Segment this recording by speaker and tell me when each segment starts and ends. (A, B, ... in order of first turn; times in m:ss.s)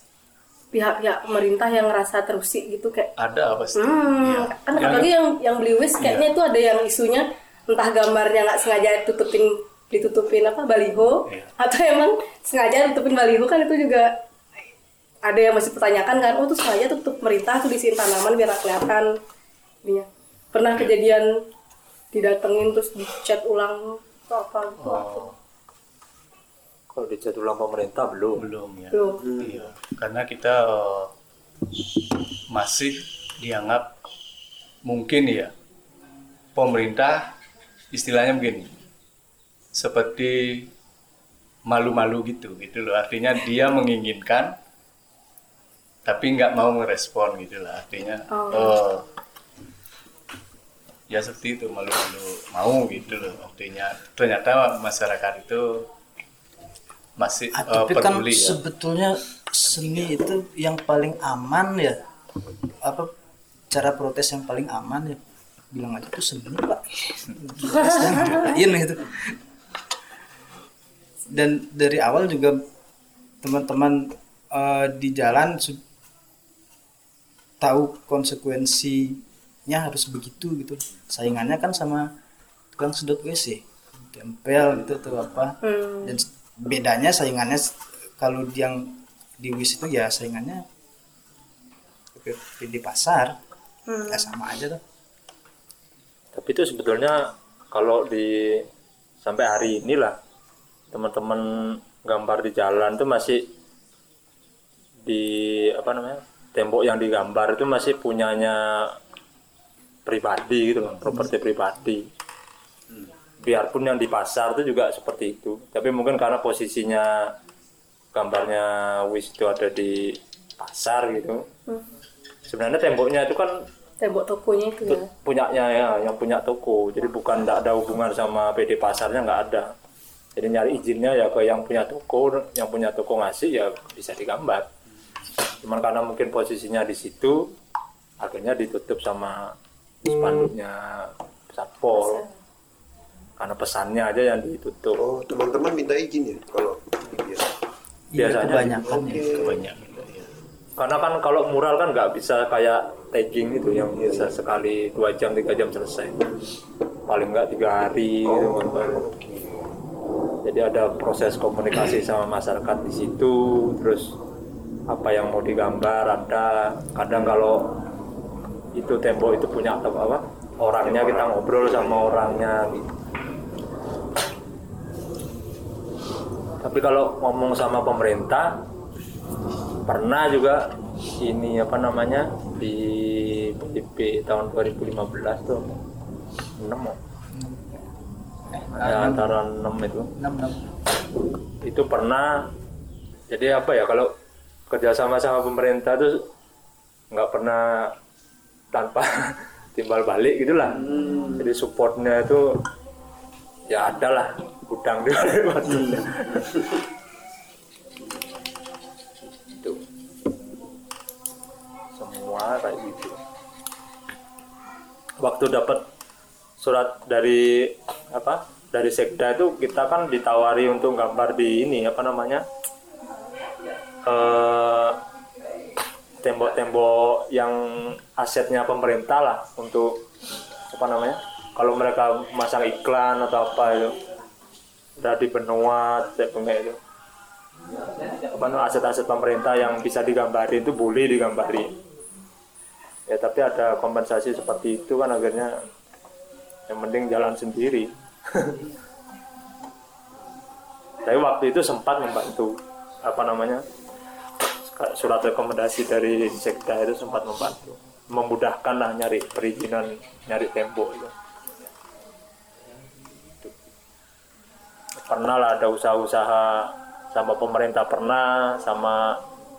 0:00.7-0:03.1 A
0:03.2-0:05.1 B
0:03.8-0:14.1 A
0:06.0-0:06.2 B
0:11.3-0:11.5 B
0:15.3-0:19.1 A
0:19.8-0:21.3 A
0:22.1-0:25.3 A
0:24.8-0:25.4 B
0:26.9-0:28.4 C
0:28.4-0:31.1 B
0:28.9-0:29.2 A
0:32.5-0:33.9 B
0:34.9-0:35.5 B
0:36.6-0:37.3 B
0:37.9-0:38.7 B
0:39.8-0:40.7 B
0:41.7-0:44.6 B
0:46.0-0:49.0 B
0:48.3-0:48.8 A
0:51.1-0:55.9 B
0:57.2-0:58.6 B
0:57.5-1:02.0 D
1:02.8-1:03.1 D
1:03.7-1:09.4 D
1:11.3-1:12.6 D
1:13.4-1:15.8 D
1:17.6-1:22.1 D
1:22.8-1:30.6 D
1:25.6-1:26.2 A
1:32.2-1:33.4 D
1:33.9-1:34.3 A
1:34.1-1:34.8 D
1:36.3-1:37.2 C
1:37.7-1:38.6 C
1:39.2-1:40.2 C
1:40.9-1:43.4 C
1:45.0-1:49.0 C
1:50.1-1:52.0 C
1:53.4-1:57.3 C
1:58.1-2:01.4 C
2:02.5-2:03.6 C
2:04.0-2:05.1 A
2:04.8-2:09.7 C
2:10.4-2:14.7 C
2:15.6-2:17.5 C
2:18.2-2:19.4 C
2:20.0-2:22.3 C
2:22.0-2:22.2 A
2:23.4-2:25.0 C
2:25.0-2:27.5 E
2:28.1-2:29.3 D
2:28.2-2:28.8 C
2:28.6-2:29.6 E
2:29.2-2:30.3 B
2:30.8-2:36.3 C
2:34.0-2:34.3 E
2:37.1-2:39.1 C
2:38.2-2:39.8 E
2:40.4-2:44.1 C
2:44.9-2:47.6 C
2:48.8-2:52.9 C
2:50.8-2:52.5 E
2:56.6-2:58.6 C
2:59.9-3:00.7 C
3:01.2-3:05.7 C
3:06.6-3:07.0 C
3:07.3-3:07.8 D
3:08.5-3:09.4 D
3:08.8-3:10.1 C
3:10.2-3:10.6 D
3:11.6-3:12.3 C
3:13.3-3:14.1 C
3:14.7-3:16.2 C
3:17.1-3:17.9 C
3:18.7-3:22.5 C
3:23.7-3:26.6 C
3:32.0-3:33.2 C
3:35.2-3:35.8 C
3:36.6-3:42.4 C
3:44.0-3:45.0 C
3:46.2-3:50.0 C
3:50.7-3:54.0 C
3:55.0-3:56.8 C
3:58.2-4:01.8 C
4:03.1-4:05.5 C
4:06.7-4:08.6 C
4:11.0-4:13.6 C
4:14.7-4:21.1 C
4:25.0-4:29.2 C